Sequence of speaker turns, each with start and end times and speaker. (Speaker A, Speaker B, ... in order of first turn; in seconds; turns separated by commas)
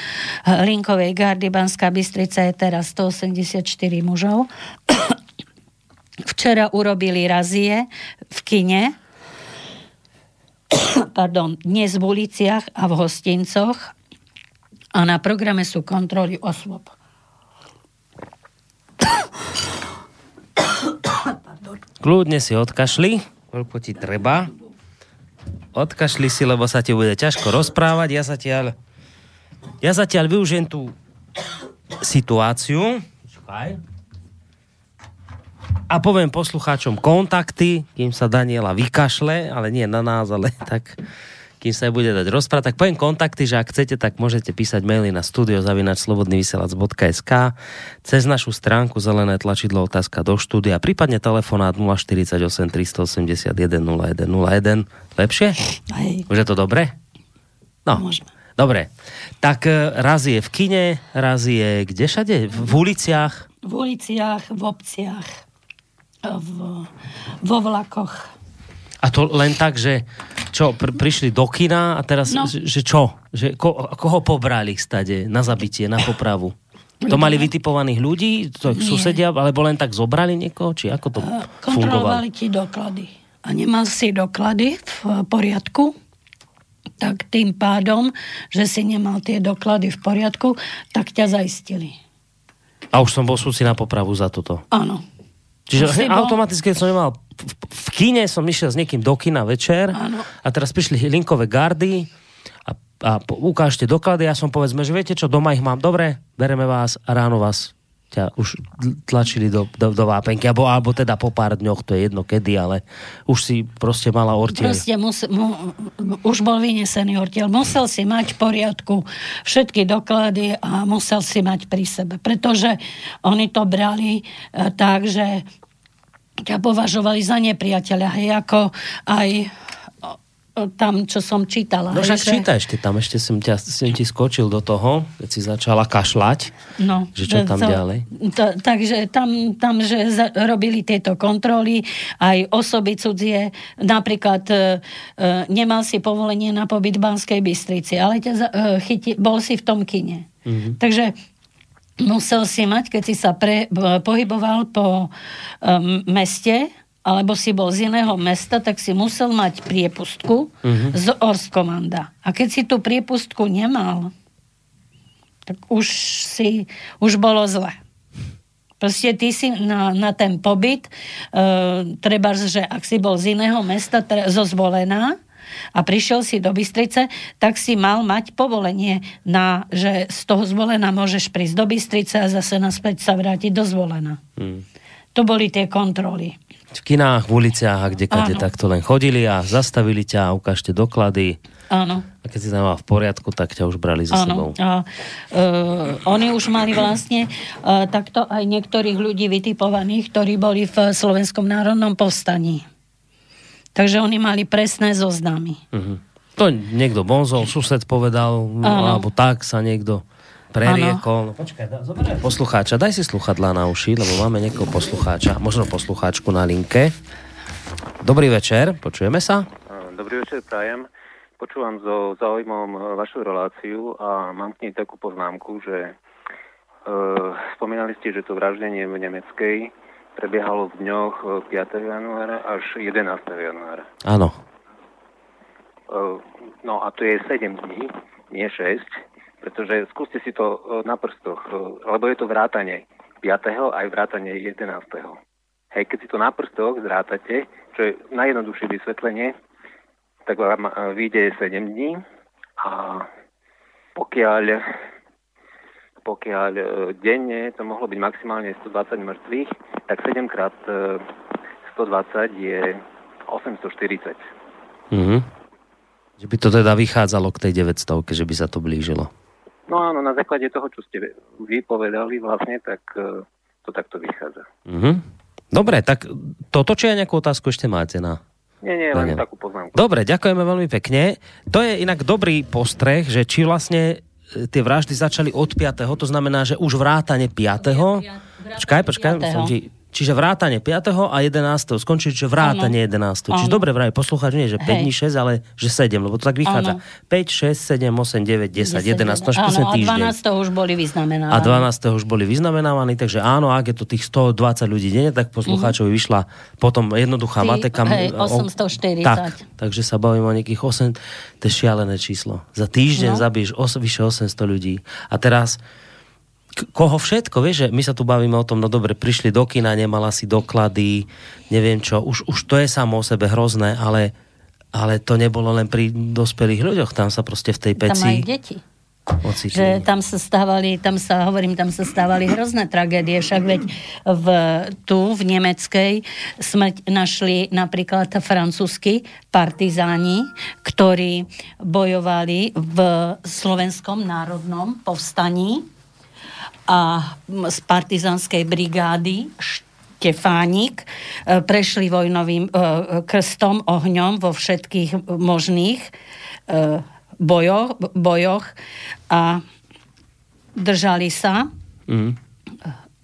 Speaker A: 0.4-5.2, Speaker A: 6.2-8.9, Speaker A: 10.7-13.9, Speaker A: 14.9-16.9, Speaker B: 22.0-24.5, Speaker B: 25.7-28.7, Speaker B: 29.8-30.9, Speaker B: 32.0-33.8, Speaker B: 35.9-41.0, Speaker B: 41.6-55.6, Speaker A: 55.9-56.2, Speaker B: 56.3-56.9, Speaker A: 57.9-58.3, Speaker B: 58.6-58.9, Speaker B: 59.4-63.5, Speaker A: 63.6-65.4, Speaker A: 66.2-68.3, Speaker B: 69.0-76.5, Speaker A: 77.0-77.5, Speaker B: 77.1-82.2, Speaker A: 78.7-79.2, Speaker A: 81.2-85.9, Speaker A: 87.0-92.0, Speaker B: 92.9-94.6, Speaker A: 94.7-95.0, Speaker B: 95.7-102.1, Speaker A: 95.8-96.4, Speaker A: 99.9-100.3, Speaker B: 102.7-114.8, Speaker A: 114.5-125.4, Speaker A: 126.4-129.5, Speaker A: 130.0-132.4, Speaker B: 131.9-136.5, Speaker A: 136.8-150.3, Speaker B: 137.2-138.0, Speaker B: 150.4-150.8, Speaker A: 150.8-151.1, Speaker A: 152.0-155.1, Speaker A: 155.6-164.1, Speaker B: 160.6-160.9, Speaker A: 165.5-167.8, Speaker A: 168.8-175.2, Speaker A: 175.7-184.2, Speaker B: 184.4-184.6, Speaker A: 185.1-186.3, Speaker B: 186.7-191.4, Speaker A: 188.1-188.5, Speaker A: 191.7-192.1, Speaker B: 192.2-194.5, Speaker A: 194.1-202.6, Speaker A: 203.7-205.6, Speaker B: 205.7-216.9, Speaker A: 208.6-209.1, Speaker A: 210.6-211.0, Speaker B: 218.0-219.5, Speaker C: 219.7-225.9, Speaker C: 226.8-233.9, Speaker B: 234.0-234.4, Speaker C: 235.9-238.9, Speaker C: 239.4-245.2, Speaker C: 245.7-249.3, Speaker C: 250.2-252.0, Speaker C: 252.6-253.1, Speaker C: 253.9-254.6, Speaker C: 256.0-261.0, Speaker C: 261.6-264.2, Speaker B: 264.9-265.3, Speaker B: 266.2-269.1, Speaker C: 269.7-274.4, Speaker B: 274.7-278.2, Speaker C: 278.6-279.8, Speaker B: 278.9-279.2, Speaker B: 279.7-300.1, Speaker A: 288.9-289.5, Speaker A: 292.4-292.7, Speaker A: 293.3-293.6, Speaker A: 294.6-294.9, Speaker A: 296.4-296.8, Speaker A: 298.6-301.6, Speaker B: 301.3-308.5, Speaker A: 305.5-305.7, Speaker A: 307.4-309.4, Speaker B: 309.0-315.6, Speaker A: 312.9-313.2, Speaker B: 316.6-324.1, Speaker B: 324.7-328.2, Speaker A: 327.8-328.6, Speaker B: 329.2-329.8, Speaker A: 329.5-345.6, Speaker A: 346.7-355.9, Speaker A: 356.5-358.5, Speaker A: 359.1-359.4, Speaker A: 360.6-361.5, Speaker B: 361.9-362.2